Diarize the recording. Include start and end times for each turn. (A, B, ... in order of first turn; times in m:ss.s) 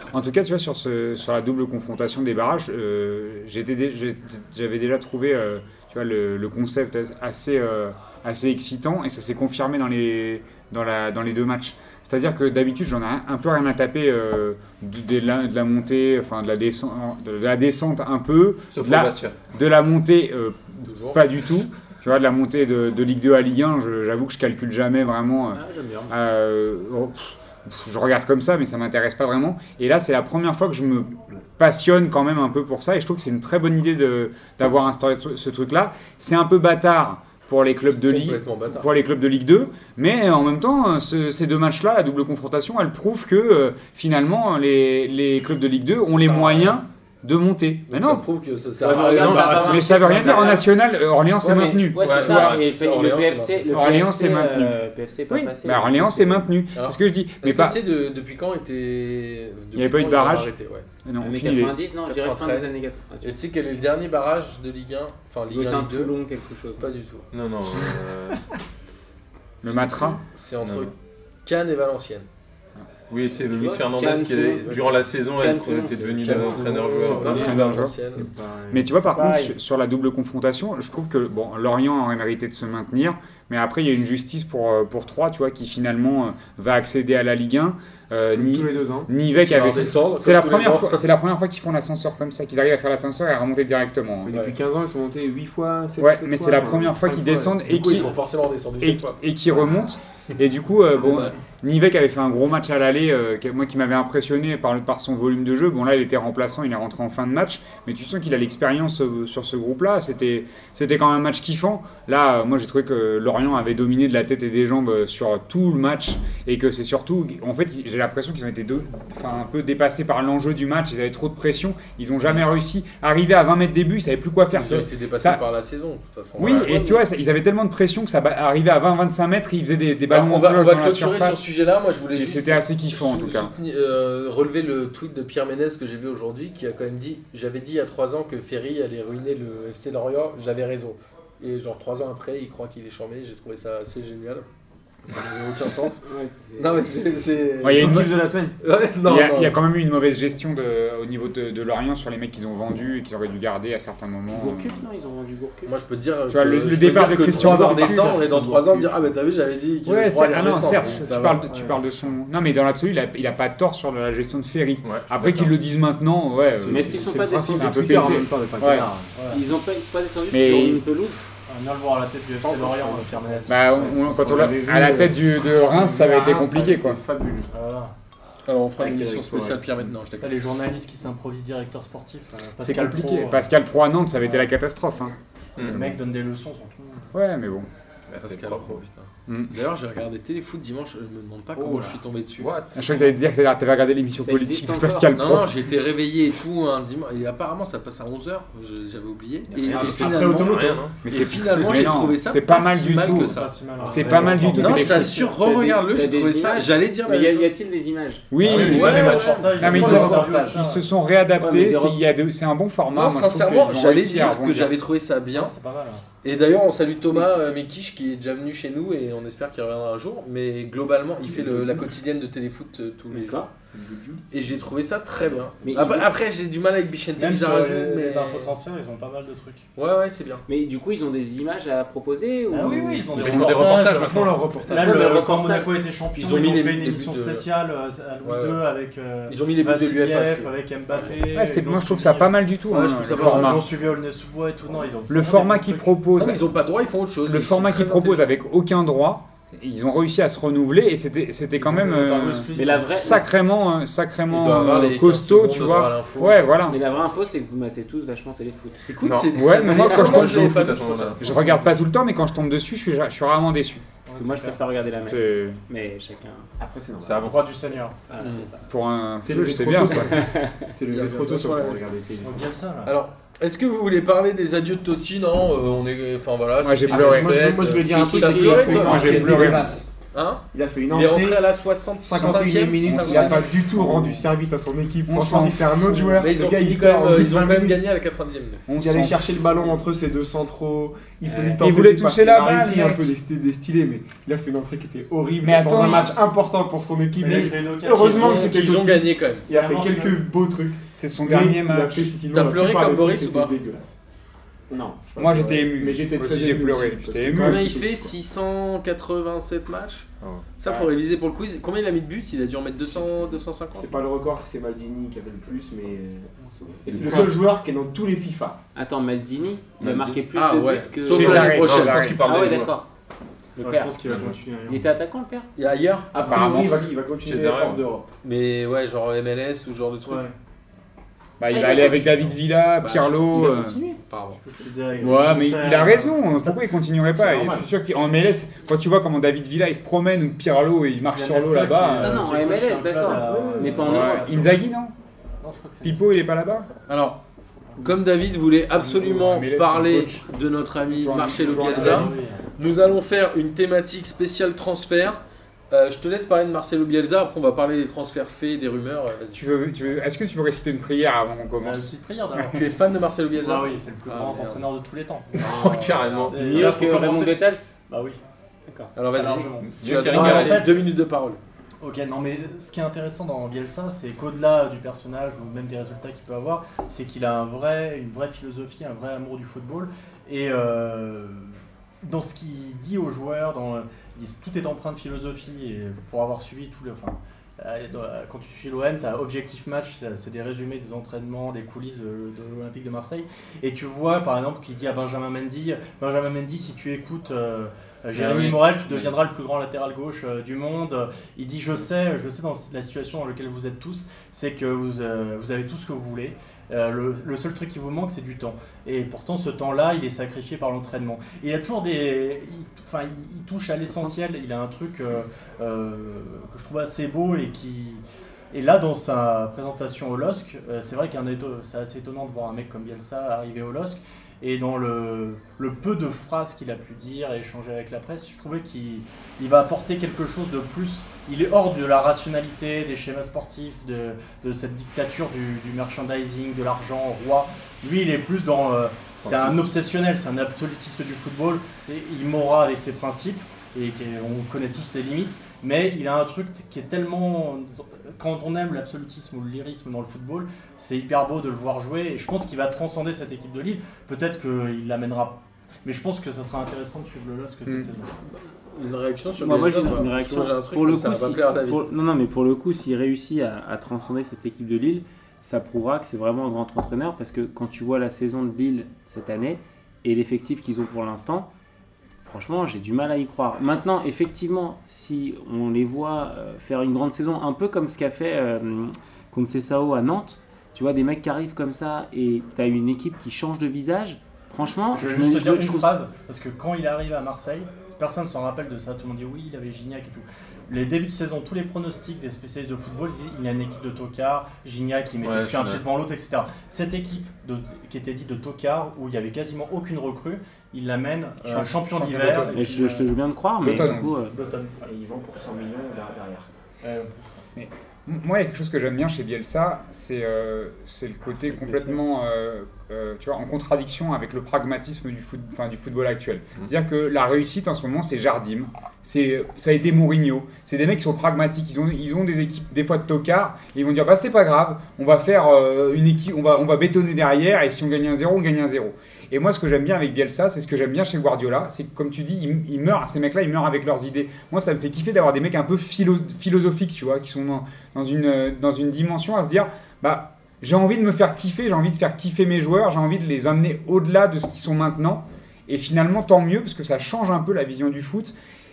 0:00.1-0:48.2 A
0:18.7-0:19.3 B
0:20.8-0:21.2 C
0:25.5-0:26.1 D
0:37.9-0:38.9 C
0:46.1-0:46.8 C
0:47.9-0:50.5 C
0:48.8-0:50.7 D
0:49.1-0:52.6 A
0:51.4-0:56.5 D
0:52.0-0:53.9 C
0:53.7-0:57.8 A
0:56.7-1:00.8 C
0:59.7-1:00.5 A
1:01.0-1:01.8 A
1:01.2-1:03.4 D
1:02.0-1:06.1 C
1:05.4-1:06.9 D
1:06.8-1:07.3 C
1:07.3-1:08.4 B
1:09.6-1:10.2 A
1:09.7-1:10.9 C
1:10.6-1:10.9 B
1:11.4-1:12.2 C
1:13.1-1:17.6 B
1:13.4-1:17.0 D
1:14.6-1:15.0 C
1:16.2-1:18.3 C
1:17.0-1:19.0 E
1:17.2-1:18.0 A
1:18.7-1:34.4 A
1:19.1-1:19.6 D
1:28.3-1:29.1 E
1:29.3-1:31.0 C
1:34.2-1:38.1 E
1:34.3-1:34.5 C
1:36.0-1:38.1 A
1:37.6-1:39.2 C
1:38.8-2:05.4 A
1:41.0-1:41.3 C
2:04.5-2:06.7 C
2:06.4-2:07.0 D
2:06.4-2:11.5 A
2:10.1-2:24.4 C
2:12.1-2:13.5 A
2:25.0-2:26.0 C
2:26.0-2:26.9 D
2:26.6-2:29.6 C
2:27.6-2:28.2 A
2:27.6-2:28.5 E
2:29.0-2:34.8 A
2:34.3-2:35.7 D
2:35.6-2:41.4 C
2:36.3-2:38.2 A
2:37.4-2:38.9 E
2:39.8-2:48.9 A
2:40.7-2:41.8 F
2:44.8-2:45.5 B
2:46.5-2:49.1 E
2:46.7-2:48.2 D
2:49.1-2:49.4 F
2:49.3-2:51.3 D
2:50.3-2:50.8 A
2:51.5-2:53.8 F
2:52.4-2:53.4 D
2:53.5-2:57.0 A
2:53.7-2:57.5 E
2:57.5-2:57.9 F
2:58.5-3:00.4 C
2:58.8-2:59.6 E
3:00.2-3:03.5 F
3:02.6-3:05.2 A
3:05.6-3:06.0 B
3:05.6-3:07.1 F
3:07.1-3:07.7 A
3:08.1-3:08.8 B
3:08.1-3:12.5 C
3:09.3-3:09.5 A
3:11.8-3:13.1 B
3:12.7-3:15.6 A
3:14.1-3:15.2 D
3:15.1-3:23.5 C
3:19.6-3:20.9 E
3:19.7-3:21.0 B
3:21.0-3:25.1 A
3:23.0-3:25.4 F
3:23.8-3:28.3 D
3:24.5-3:27.5 C
3:28.3-3:29.0 A
3:28.4-3:30.0 B
3:28.4-3:30.0 C
3:28.5-3:30.8 F
3:28.7-3:30.6 E
3:29.6-3:34.7 A
3:31.4-3:32.0 D
3:32.9-3:35.5 C
3:35.3-3:36.0 F
3:36.2-3:43.5 C
3:41.2-3:41.9 E
3:43.1-3:43.5 D
3:43.7-3:44.2 E
3:44.3-3:48.5 C
3:45.6-3:46.1 D
3:47.2-3:49.6 F
3:49.8-3:50.4 C
3:50.5-3:53.4 D
3:52.5-4:02.3 F
3:53.1-3:54.5 B
3:53.3-3:55.3 E
3:54.7-3:55.7 D
3:56.2-3:57.4 C
3:58.2-3:58.6 C
3:59.3-4:00.5 C
4:01.3-4:03.6 A
4:02.7-4:03.6 C
4:03.1-4:05.9 F
4:05.1-4:06.4 A
4:06.2-4:08.3 C
4:07.2-4:16.8 A
4:11.6-4:13.2 E
4:12.5-4:13.2 D
4:14.3-4:16.6 C
4:16.7-4:18.9 D
4:18.9-4:21.4 C
4:19.0-4:21.4 B
4:19.3-4:23.8 A
4:24.1-4:24.6 F
4:24.1-4:26.5 D
4:25.0-4:25.6 A
4:26.6-4:27.3 E
4:27.0-4:27.4 B
4:27.2-4:28.2 F
4:28.1-4:28.6 D
4:28.7-4:30.3 A
4:29.2-4:32.5 E
4:30.1-4:30.7 D
4:30.9-4:31.9 C
4:32.2-4:32.9 F
4:32.8-4:43.5 C
4:36.6-4:37.4 A
4:36.9-4:39.9 E
4:37.9-4:39.5 D
4:38.3-4:39.8 A
4:40.5-4:41.4 E
4:42.0-4:47.8 E
4:42.1-4:44.3 A
4:45.0-4:46.3 A
4:46.2-4:48.6 C
4:48.7-4:49.8 A
4:48.7-5:04.0 E
4:51.6-4:53.1 A
4:55.4-4:56.2 A
4:57.2-4:58.6 F
4:58.0-4:59.5 C
4:59.5-5:00.2 F
5:00.9-5:02.2 A
5:02.3-5:03.5 C
5:04.7-5:08.1 E
5:05.2-5:07.7 A
5:07.3-5:10.1 C
5:10.2-5:10.5 B
5:10.6-5:13.9 C
5:10.6-5:10.9 A
5:12.9-5:18.6 E
5:16.9-5:17.3 B
5:18.7-5:21.7 D
5:19.8-5:20.2 B
5:20.3-5:22.2 C
5:21.1-5:22.2 A
5:21.1-5:22.8 B
5:22.2-5:22.9 D
5:23.6-5:24.0 D
5:23.6-5:24.9 F
5:24.0-5:24.4 B
5:24.7-5:25.5 D
5:25.6-5:26.1 C
5:26.1-5:28.0 E
5:26.2-5:26.7 A
5:27.2-5:27.8 B
5:28.2-5:30.2 C
5:30.0-5:30.3 F
5:31.4-5:33.8 A
5:31.5-5:32.1 D
5:32.8-5:34.4 C
5:34.4-5:36.6 F
5:35.0-5:42.3 A
5:37.2-5:37.7 F
5:41.1-5:44.6 F
5:42.0-5:44.3 D
5:43.8-5:44.9 A
5:45.4-5:46.1 F
5:45.8-5:46.7 A
5:46.9-5:47.2 C
5:47.8-5:55.2 C
5:48.8-5:50.2 A
5:50.9-5:52.1 A
5:51.4-5:52.4 F
5:55.7-5:59.4 C
5:59.3-6:01.9 A
6:01.6-6:02.6 F
6:02.4-6:04.6 C
6:03.3-6:05.5 F
6:05.3-6:06.7 B
6:05.3-6:06.6 C
6:06.3-6:08.2 F
6:06.3-6:07.7 D
6:09.0-6:11.4 C
6:09.1-6:10.8 F
6:09.8-6:10.7 B
6:11.8-7:38.1 F
6:38.1-6:39.1 C
7:19.2-7:19.6 B
7:38.7-7:41.8 C
7:39.4-7:51.5 D
7:52.2-8:05.9 D
8:04.9-8:23.1 F
8:15.2-8:15.8 B
8:22.0-8:22.4 B
8:22.5-8:24.4 D
8:23.6-8:24.1 A
8:23.6-8:24.9 F
8:24.8-8:26.5 E
8:26.8-8:27.4 F
8:27.6-9:08.3 A